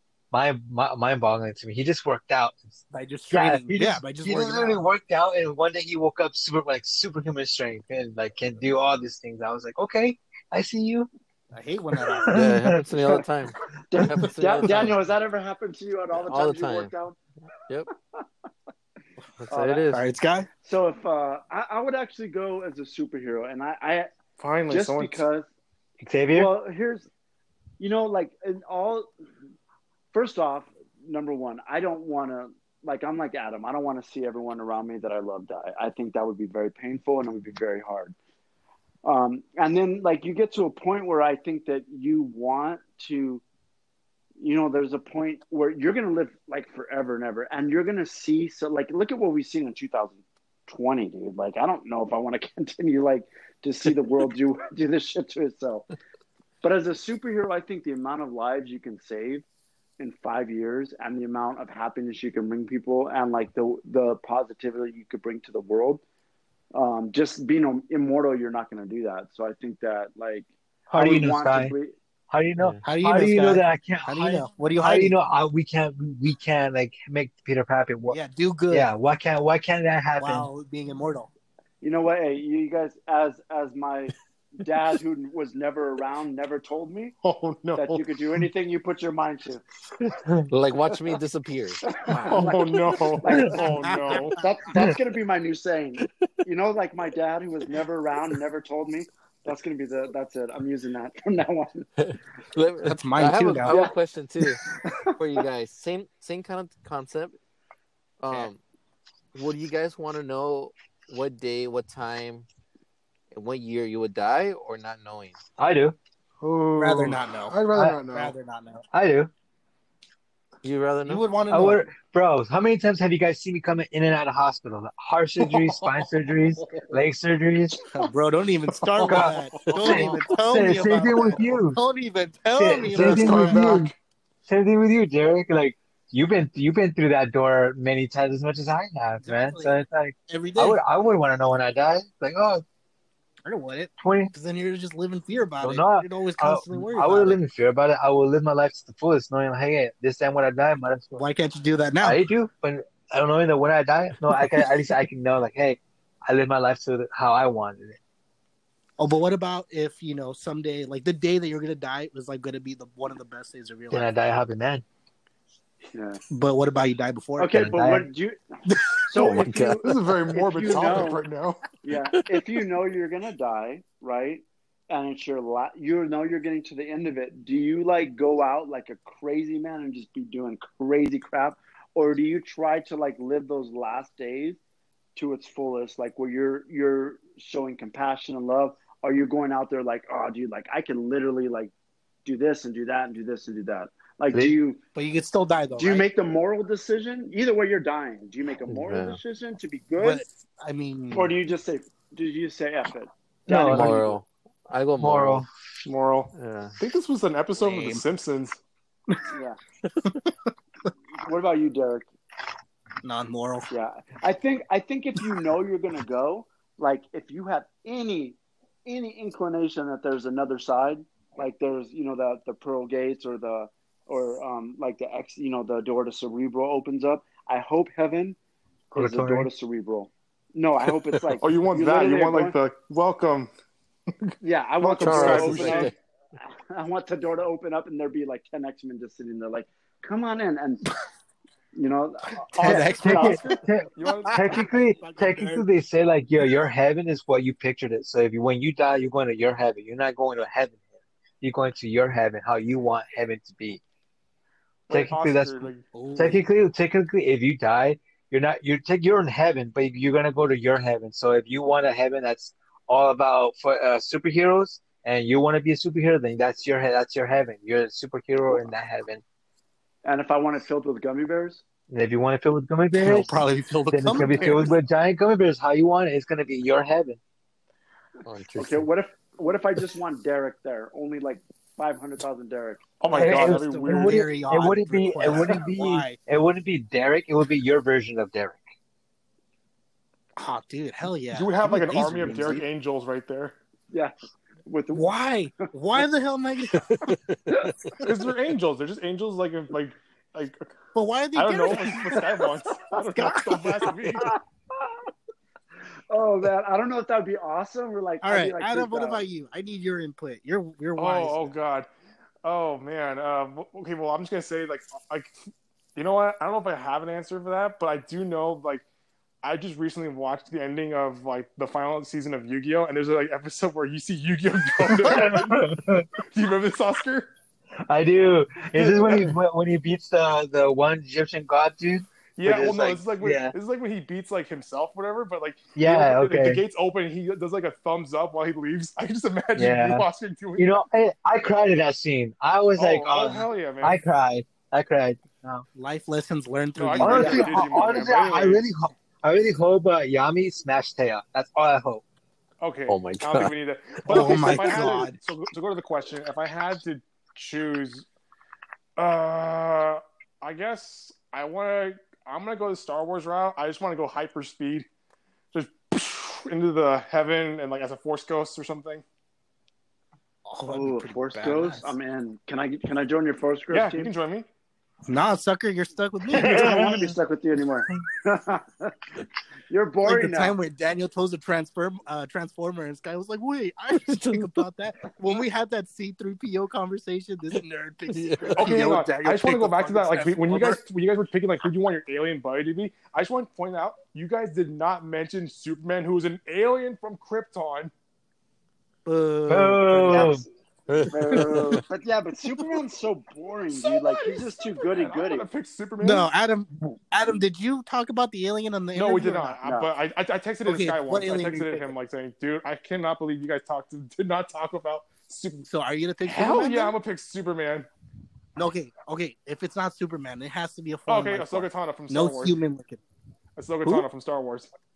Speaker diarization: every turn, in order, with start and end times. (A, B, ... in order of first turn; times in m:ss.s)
0:00.3-0:11.1 A
0:02.9-0:04.8 B
0:11.5-0:12.4 B
0:12.2-0:12.7 A
0:12.3-0:15.1 C
0:13.9-0:17.2 D
0:16.2-0:16.9 C
0:19.4-0:20.0 C
0:19.5-0:19.9 D
0:19.9-0:20.5 B
0:20.6-0:24.1 D
0:24.4-0:25.2 E
0:24.7-0:25.5 D
0:26.0-0:26.5 A
0:26.3-0:27.1 D
0:27.8-0:29.1 D
0:30.1-0:38.1 D
0:39.0-0:43.4 D
0:44.4-0:55.9 D
0:56.6-0:59.4 D
1:00.0-1:06.0 D
1:06.7-1:11.9 D
1:10.9-1:11.7 A
1:12.3-1:18.2 A
1:12.8-1:15.1 B
1:18.1-1:18.9 B
1:18.7-1:20.5 A
1:20.2-1:21.3 B
1:21.8-1:27.1 D
1:27.2-1:28.1 E
1:27.8-1:29.6 D
1:30.4-1:32.0 C
1:31.9-1:32.7 D
1:32.1-1:34.4 E
1:33.2-1:41.9 D
1:33.6-1:34.4 B
1:42.0-1:44.6 C
1:42.8-1:43.8 B
1:43.7-1:43.9 D
1:44.9-1:45.1 D
1:45.2-1:47.3 C
1:48.2-1:48.6 C
1:49.3-1:52.5 C
1:53.3-1:55.4 C
1:55.6-1:56.0 A
1:56.4-1:58.3 E
1:56.8-1:58.8 B
1:57.7-1:58.0 A
1:58.9-1:59.3 A
2:00.6-2:01.3 C
2:01.0-2:01.8 B
2:01.5-2:07.9 A
2:07.9-2:13.7 B
2:09.0-2:10.2 E
2:09.0-2:11.8 A
2:12.5-2:13.9 A
2:12.9-2:14.0 E
2:14.4-2:22.6 A
2:19.2-2:20.8 B
2:23.4-2:27.4 B
2:24.0-2:24.3 A
2:25.6-2:31.2 A
2:31.2-2:32.2 B
2:32.0-2:38.0 A
2:39.0-2:44.1 B
2:43.9-2:44.8 A
2:45.9-2:46.2 D
2:46.3-2:47.9 B
2:47.4-2:48.4 D
2:47.6-2:48.1 A
2:48.9-2:51.2 D
2:49.2-2:50.1 C
2:49.8-2:51.6 E
2:51.8-3:04.6 D
3:05.2-3:11.7 D
3:12.2-3:14.8 D
3:14.9-3:16.0 B
3:15.8-3:20.2 D
3:18.7-3:19.2 C
3:20.0-3:21.3 B
3:21.1-3:24.1 D
3:23.5-3:24.0 A
3:23.7-3:25.4 C
3:25.0-3:25.5 A
3:25.8-3:28.6 E
3:26.3-3:26.8 C
3:27.6-3:28.0 B
3:29.3-3:29.6 D
3:31.1-3:32.0 D
3:33.0-3:33.7 B
3:33.7-3:48.4 D
3:48.9-3:49.5 A
3:48.9-3:52.6 D
3:51.4-3:53.5 E
3:54.4-3:55.9 D
3:54.8-3:55.9 E
3:55.0-3:55.9 C
3:56.5-4:00.8 D
4:01.7-4:03.4 D
4:02.6-4:04.6 E
4:02.6-4:03.6 B
4:02.6-4:10.8 A
4:04.2-4:05.7 B
4:11.4-4:13.8 A
4:14.9-4:15.9 E
4:14.9-4:29.2 A
4:15.9-4:16.4 B
4:30.0-4:31.6 D
4:31.9-4:37.2 A
4:33.0-4:34.7 B
4:38.2-4:38.9 C
4:38.6-4:42.8 D
4:43.0-4:44.3 E
4:43.1-4:46.2 B
4:43.1-4:48.6 A
4:50.4-4:52.6 B
4:51.3-4:53.6 E
4:54.6-4:55.1 D
4:54.9-4:57.0 B
4:56.7-4:57.9 C
4:58.0-5:00.7 E
5:00.9-5:03.9 B
5:01.3-5:04.4 E
5:04.2-5:05.0 D
5:06.1-5:09.2 D
5:08.2-5:11.6 B
5:11.0-5:11.9 E
5:12.4-5:15.3 E
5:15.9-5:18.8 E
5:19.4-5:27.3 E
5:24.8-5:26.1 A
5:27.8-5:33.5 A
5:28.7-5:29.4 E
5:32.4-5:40.8 E
5:35.8-5:36.6 A
5:39.6-5:45.6 A
5:42.7-5:44.0 E
5:45.7-5:47.6 B
5:46.8-5:48.6 E
5:47.0-5:52.0 A
5:47.1-5:47.5 D
5:52.6-5:58.0 E
5:52.9-5:53.5 C
5:54.1-5:55.2 B
5:59.0-6:04.9 E
6:05.5-6:09.0 E
6:10.5-6:11.9 B
6:10.6-6:14.1 D
6:13.7-6:14.5 E
6:15.1-6:17.1 B
6:16.4-6:19.1 D
6:16.4-6:16.8 E
6:19.7-6:20.6 D
6:20.0-6:30.8 B
6:23.9-6:24.5 C
6:28.1-6:28.6 C
6:28.6-6:37.9 E
6:39.0-6:40.4 B
6:39.5-6:40.4 A
6:40.0-6:40.4 D
6:40.9-6:41.4 C
6:41.0-6:45.5 D
6:44.9-6:46.3 E
6:46.0-6:49.6 B
6:48.9-6:55.7 E
6:49.6-6:49.9 D
6:50.6-6:51.9 B
6:55.6-6:57.0 B
6:56.2-6:57.9 E
6:58.6-7:03.0 B
7:01.1-7:02.6 E
7:03.6-7:04.7 E